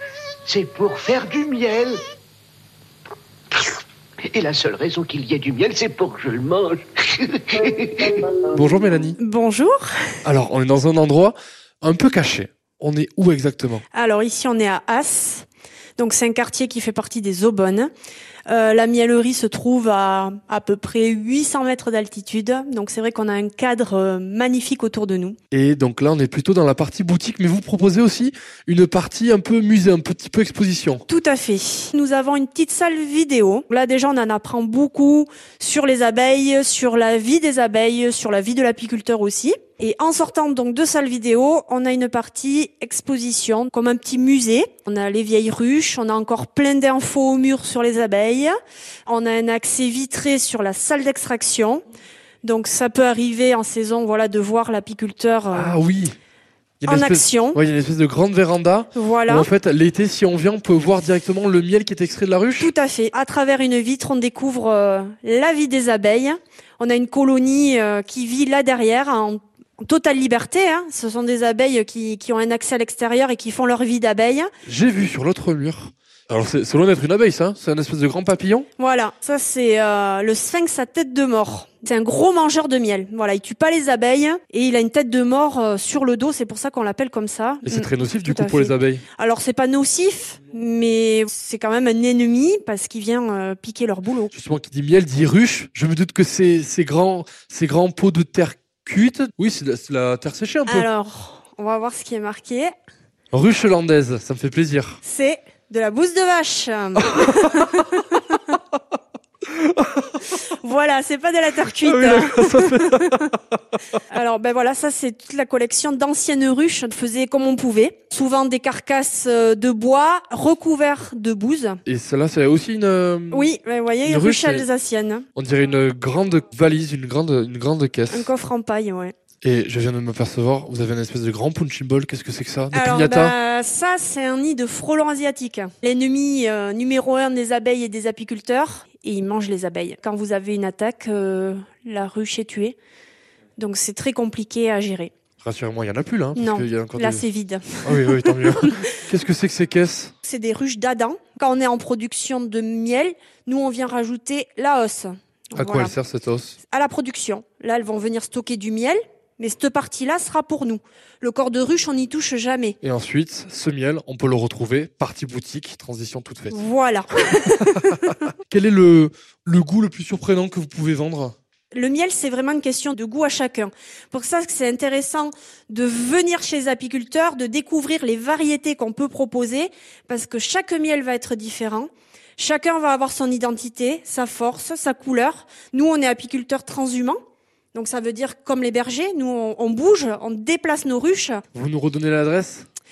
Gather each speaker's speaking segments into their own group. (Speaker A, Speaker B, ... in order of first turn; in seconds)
Speaker A: 0.5-2.0, 4.3-8.3
Speaker B: 8.5-9.2, 10.2-13.8, 25.5-31.0, 55.5-56.1, 56.8-62.7, 74.6-78.7, 87.6-89.0, 94.3-100.9, 103.3-105.0, 107.0-107.4, 109.5-110.2, 111.8-113.5, 121.8-123.5, 124.0-124.7, 125.3-128.3, 129.4-133.3, 145.4-147.2, 147.8-150.1, 155.5-156.6, 162.8-166.6, 168.0-171.3, 191.5-192.7
Speaker C: 9.2-10.2, 13.9-15.5, 16.0-17.9, 18.5-25.4, 31.1-48.5, 49.1-51.8, 52.4-55.8, 56.9-57.6, 58.9-59.5, 62.6-74.5, 78.8-94.3, 100.7-102.7, 105.0-108.6, 110.4-113.3, 114.1-121.8, 123.3-125.2, 128.1-129.1, 132.7-142.7, 143.6-145.1, 146.3-148.8, 150.2-155.9, 156.6-162.8, 166.5-168.2, 171.7-187.2, 187.7-191.4